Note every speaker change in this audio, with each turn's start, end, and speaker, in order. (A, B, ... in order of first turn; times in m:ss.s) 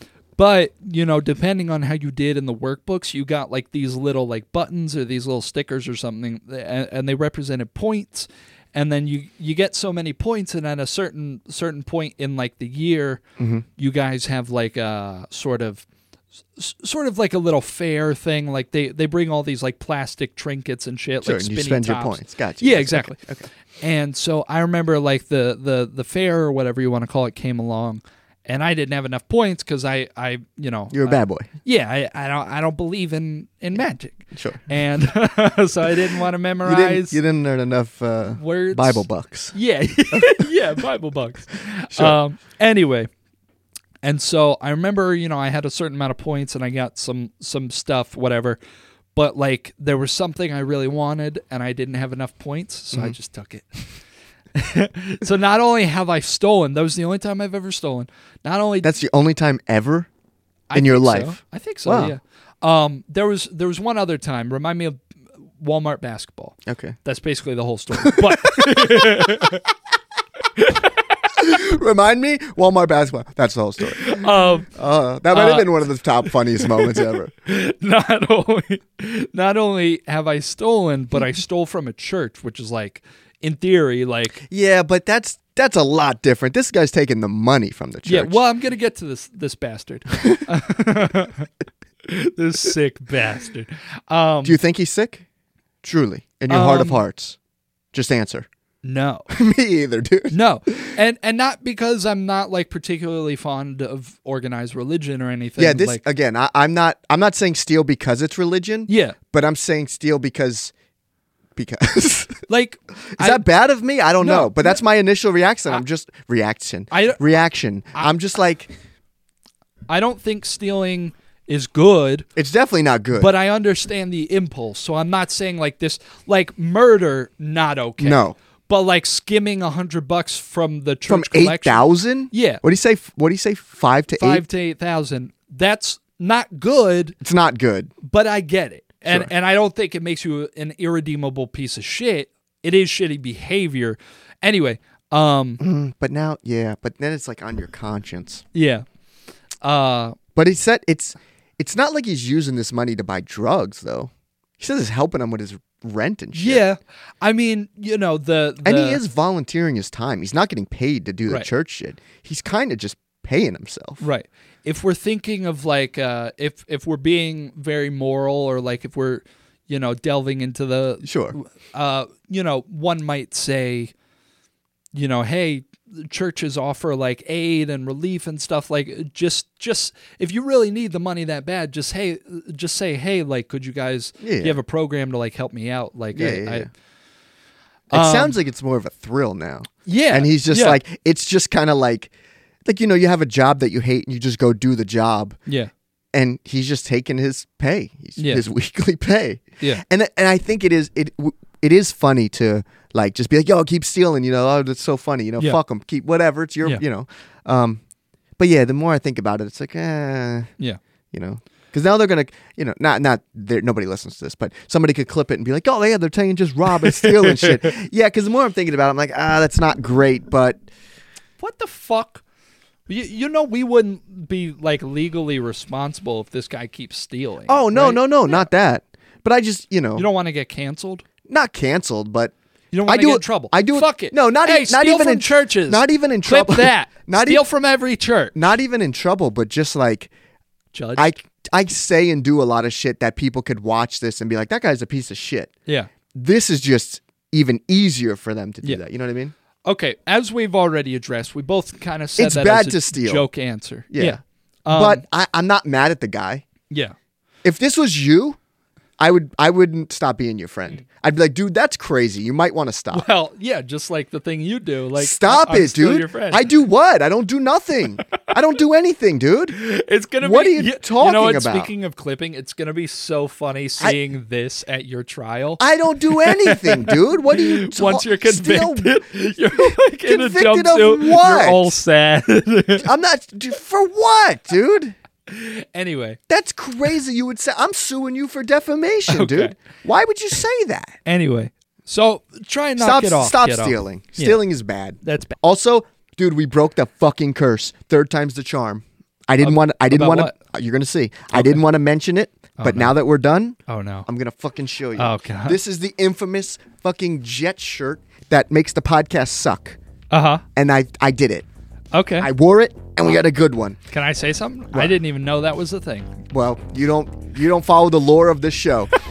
0:00.4-0:13.2 A
0:13.4-0:13.6 B
0:13.8-0:15.9 A
0:16.6-0:23.2 A
0:21.2-0:23.5 B
0:23.8-0:37.2 A
0:30.9-0:31.5 B
0:34.3-0:34.6 B
0:36.6-0:39.6 B
0:38.4-0:43.1 A
0:40.1-0:40.5 B
0:41.9-0:42.2 B
0:44.0-0:48.6 A
0:49.1-0:53.9 A
0:54.6-0:58.9 A
0:58.8-1:00.1 B
1:00.7-1:05.0 A
1:00.7-1:02.1 B
1:05.6-1:09.6 A
1:06.7-1:07.0 B
1:08.0-1:09.1 B
1:10.6-1:10.9 A
1:11.3-1:17.3 B
1:13.9-1:14.7 A
1:15.3-1:15.7 A
1:16.6-1:24.4 A
1:24.4-1:28.4 B
1:28.0-1:31.5 A
1:32.0-1:34.6 A
1:34.4-1:35.2 B
1:35.8-1:37.4 B
1:36.5-1:37.0 A
1:37.9-1:38.5 B
1:38.8-1:39.3 A
1:39.3-1:40.7 B
1:40.3-1:46.0 A
1:45.6-1:50.7 B
1:48.9-1:49.2 A
1:51.6-1:52.5 B
1:52.5-1:53.4 A
1:53.2-1:58.7 B
1:54.2-1:54.8 A
1:56.9-1:57.2 A
1:59.9-2:02.3 A
2:02.4-2:03.3 B
2:03.1-2:12.6 A
2:08.0-2:08.4 B
2:11.1-2:14.4 B
2:14.2-2:17.2 A
2:17.2-2:17.9 B
2:18.0-2:25.6 A
2:19.0-2:19.3 B
2:25.6-2:28.4 B
2:28.5-2:28.8 A
2:29.6-2:30.2 A
2:30.4-2:36.6 B
2:36.4-2:39.0 A
2:38.6-2:44.0 B
2:44.0-2:53.9 A
2:51.0-2:51.4 B
2:54.9-3:06.7 A
3:04.2-3:04.6 B
3:06.1-3:06.7 B
3:07.9-3:08.4 A
3:07.9-3:12.1 B
3:09.9-3:10.8 A
3:12.6-3:15.4 B
3:16.1-3:27.8 B
3:18.2-3:18.4 A
3:28.4-3:30.5 B
3:31.1-3:40.6 B
3:37.0-3:37.7 A
3:41.4-3:42.2 A
3:42.9-3:48.5 A
3:47.5-3:50.1 B
3:50.0-3:51.0 A
3:51.3-3:52.3 B
3:52.7-3:58.5 A
3:52.9-3:57.4 B
3:58.4-4:00.1 B
4:00.7-4:01.1 A
4:01.0-4:05.5 B
4:06.1-4:09.3 B
4:09.7-4:15.0 A
4:12.2-4:13.3 B
4:13.9-4:16.5 B
4:16.7-4:17.0 A
4:17.4-4:18.4 B
4:19.0-4:23.1 B
4:22.9-4:26.5 A
4:25.0-4:29.6 B
4:29.5-4:42.9 A
4:30.2-4:31.7 B
4:35.6-4:41.7 B
4:42.8-4:45.0 B
4:45.3-4:46.2 A
4:46.3-4:51.0 B
4:49.1-4:49.6 A
4:51.1-4:54.4 A
4:52.8-5:09.8 B
4:55.0-4:55.4 A
4:59.4-5:00.3 A
5:01.3-5:01.6 A
5:02.6-5:03.0 A
5:03.7-5:04.1 A
5:05.0-5:05.6 A
5:10.1-5:10.4 A
5:10.6-5:11.5 B
5:11.9-5:12.3 A
5:12.2-5:13.8 B
5:13.9-5:16.1 A
5:16.3-5:18.9 B